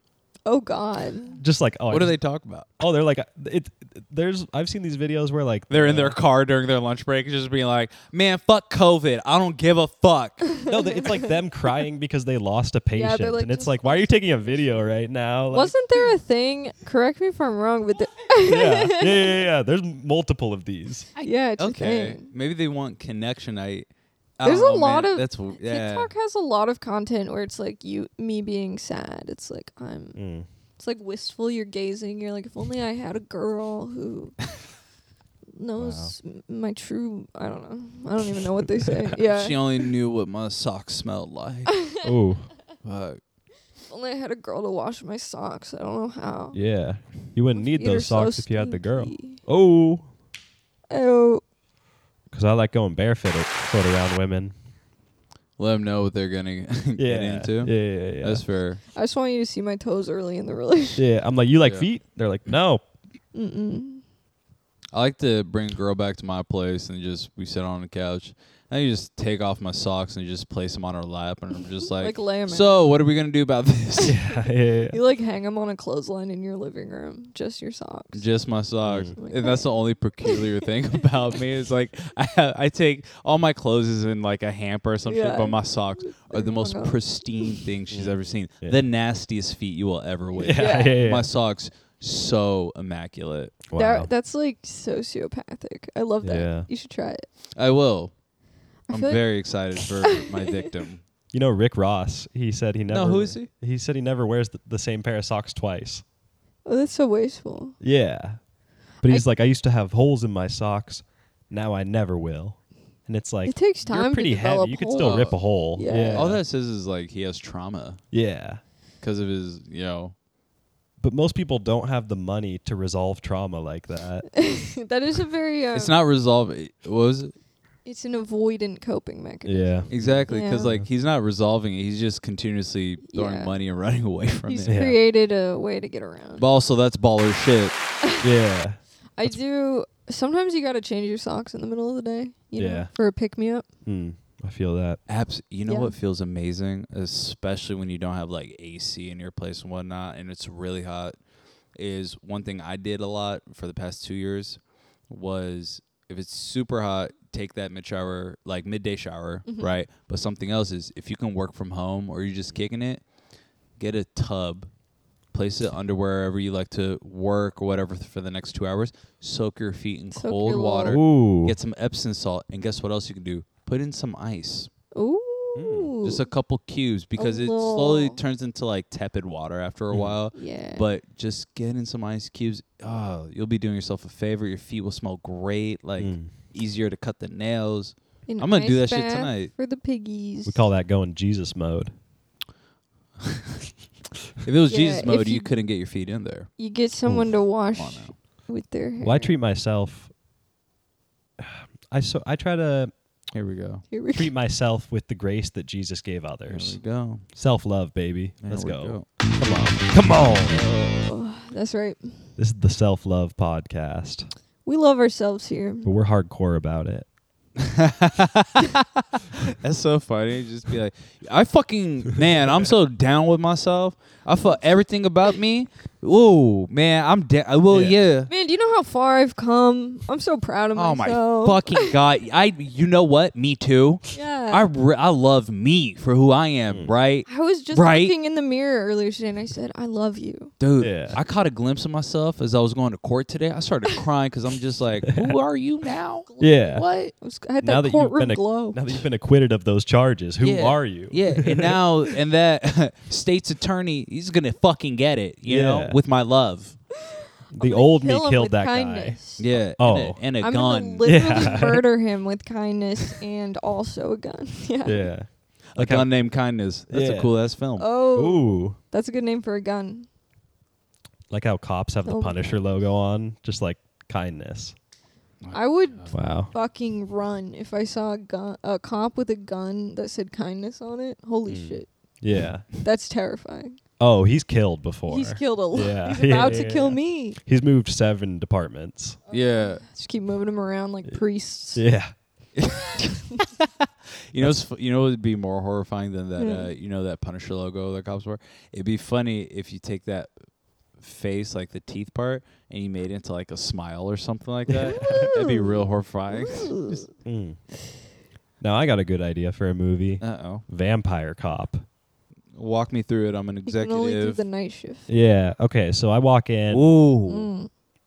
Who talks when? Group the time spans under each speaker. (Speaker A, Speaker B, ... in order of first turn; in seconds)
Speaker A: 0.5-1.4, 10.6-11.3, 12.9-14.2, 15.5-19.4, 21.2-22.2, 24.4-30.2, 30.8-34.4, 35.5-39.6, 41.7-42.0, 43.9-46.6, 47.5-49.4, 50.9-51.4, 58.9-61.0, 63.3-64.0, 72.0-72.8, 74.0-78.2, 79.2-80.5, 85.0-87.6, 90.5-91.1, 93.8-97.2, 98.9-100.7, 106.6-107.8, 113.5-116.3, 124.3-125.9, 127.8-130.8, 133.1-133.6, 134.4-136.4, 139.2-143.6, 145.7-145.9, 159.4-159.7, 170.1-171.0, 174.9-176.2, 177.2-178.2, 180.3-180.9, 188.3-190.6, 194.7-195.5, 196.6-199.3, 203.9-204.3, 210.5-212.2, 214.6-215.9, 228.3-232.0, 234.1-234.7, 237.2-240.5, 246.3-248.8, 257.6-259.5, 260.4-265.1, 267.8-270.1, 272.0-272.6, 275.5-281.9, 282.8-283.8, 285.1-287.4, 289.3-291.9, 293.0-293.4, 296.4-296.7, 304.9-307.0, 313.6-315.1, 317.3-317.7
Speaker B: 1.4-2.2, 2.8-6.2, 10.7-15.7, 18.4-21.1, 30.1-30.4, 35.8-36.1, 42.0-42.5, 46.5-50.1, 52.3-54.5, 57.0-58.4, 61.0-62.8, 74.0-75.0, 78.8-79.1, 87.9-88.9, 90.4-91.3, 93.7-94.1, 96.2-96.7, 101.3-106.0, 107.8-108.4, 109.0-116.4, 118.1-118.6, 121.0-124.3, 129.4-130.2, 134.7-135.0, 138.2-139.4, 142.6-142.9, 143.8-145.0, 170.8-171.5, 175.6-175.9, 179.9-180.2, 186.0-186.3, 190.4-191.9, 199.0-200.1, 201.4-202.9, 204.1-206.8, 207.3-210.6, 212.4-214.3, 215.8-217.1, 227.7-227.9, 240.8-241.2, 246.4-246.8, 247.6-251.8, 255.5-256.0, 257.5-259.2, 259.8-260.2, 261.0-261.9, 264.8-266.1, 266.9-267.3, 268.1-268.8, 271.3-274.7, 276.1-276.5, 281.5-282.6, 284.0-289.2, 291.7-292.1, 304.9-305.3, 307.2-307.6, 308.6-311.8, 315.1-316.9
Speaker C: 1.9-2.7, 5.7-10.5, 21.2-23.9, 24.4-26.1, 39.2-41.8, 42.8-43.2, 55.6-58.8, 61.6-61.9, 64.9-74.2, 78.1-93.6, 97.5-98.1, 98.9-101.0, 102.9-103.5, 115.0-115.4, 116.1-118.0, 119.0-120.1, 125.7-127.3, 129.9-134.8, 136.4-137.7, 145.1-151.1, 151.7-163.1, 163.8-164.7, 165.3-174.7, 176.0-189.5, 194.4-196.5, 197.7-198.1, 203.3-203.8, 206.5-207.2, 208.4-209.1, 217.6-228.3, 230.7-238.1, 240.6-247.0, 250.4-256.8, 259.4-261.6, 265.7-267.9, 275.4-276.1, 289.3-289.8, 292.6-292.9, 293.6-300.3, 301.0-307.0, 310.2-310.6, 312.5-314.4, 316.7-317.5